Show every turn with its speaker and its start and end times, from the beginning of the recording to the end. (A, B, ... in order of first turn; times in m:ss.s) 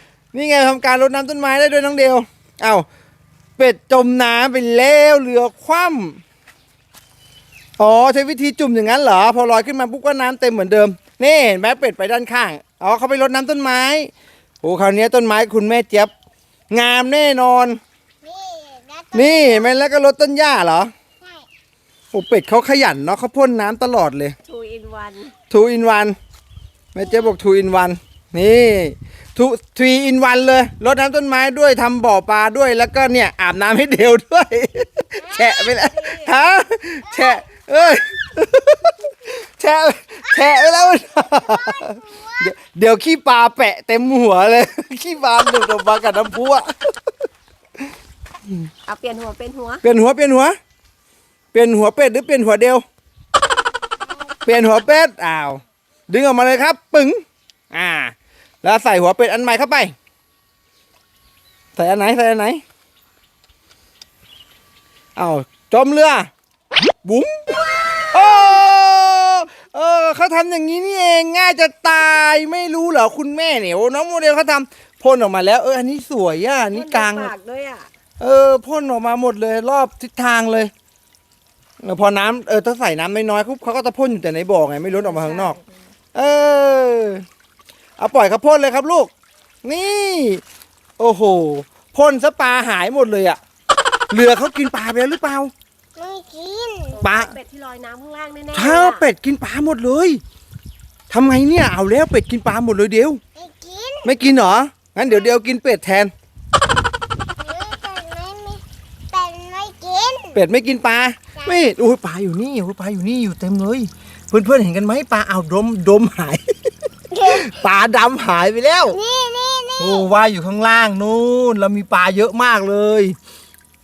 0:00.3-0:02.9 A
0:03.6-0:06.2 A
0:07.8-0:14.1 A
0:14.6-0:16.1 A
0:16.7-0:17.8 A
0:18.2-0:19.7 B
0:19.1-0:20.9 A
0:22.1-0:24.4 A
0:24.4-0:25.3 C
0:25.5-0:26.2 A
0:27.0-0:46.9 A
0:35.2-0:36.3 C
0:37.1-0:37.4 B
0:40.3-0:40.9 B
0:41.4-0:42.4 B
0:48.9-0:49.8 C
0:49.8-0:50.6 A
0:51.5-0:52.8 A
0:54.4-0:57.2 A
0:57.7-0:59.9 A
1:01.8-1:02.6 A
1:05.2-1:06.3 A
1:07.0-1:07.4 A
1:08.1-1:17.3 A
1:16.7-1:17.9 C
1:18.2-1:20.7 A
1:21.8-1:25.6 A
1:24.9-1:25.8 C
1:26.1-1:27.2 A
1:28.0-1:29.1 A
1:29.6-1:30.4 A
1:31.0-1:33.4 A
1:34.1-1:35.5 A
1:36.0-1:37.0 B
1:37.0-1:39.0 C
1:37.0-1:37.4 A
1:38.5-1:40.2 A
1:41.1-1:43.2 A
1:43.4-1:44.1 B
1:44.0-1:46.1 A
1:47.4-1:50.4 B
1:50.3-1:56.5 A
1:57.1-1:57.6 B
1:57.2-1:59.0 A
1:58.9-2:00.1 B
1:59.8-2:03.2 A